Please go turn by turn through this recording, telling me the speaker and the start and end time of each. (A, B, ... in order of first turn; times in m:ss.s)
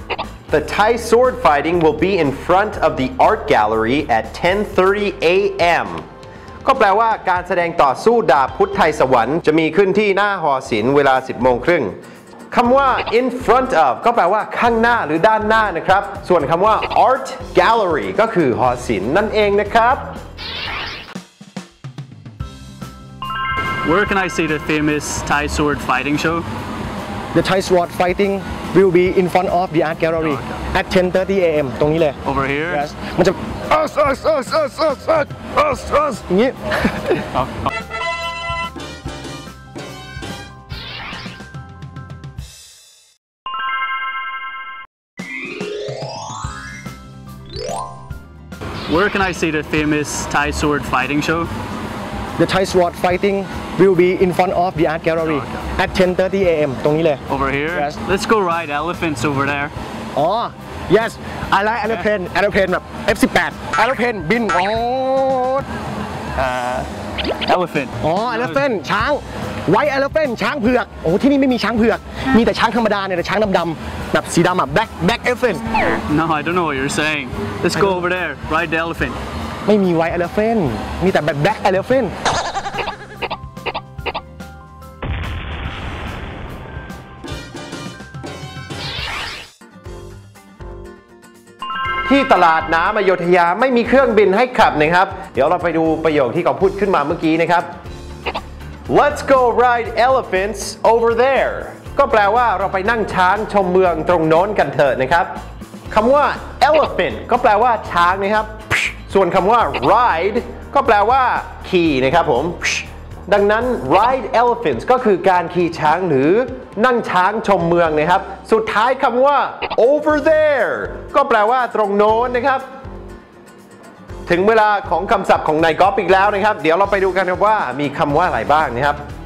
0:00.5-0:06.0 A
0:06.6-0:12.0 A
0:12.5-0:20.2 A
0:23.8-0:26.5 B
0:27.3-0:32.2 C
0:30.2-0:30.6 B
0:32.2-0:32.8 B
0:32.7-0:37.2 C
0:37.3-0:37.7 B
0:48.9-0:51.5 B
0:52.4-0:58.0 C
0:55.2-0:55.6 B
0:57.3-0:59.7 B
1:00.2-1:05.7 C
1:06.4-1:08.6 B
1:08.0-1:15.7 C
1:16.1-1:19.2 B
1:19.7-1:22.1 C
1:32.1-1:37.7 A
1:38.9-1:45.4 A
1:45.9-2:02.6 A
2:04.3-2:09.0 A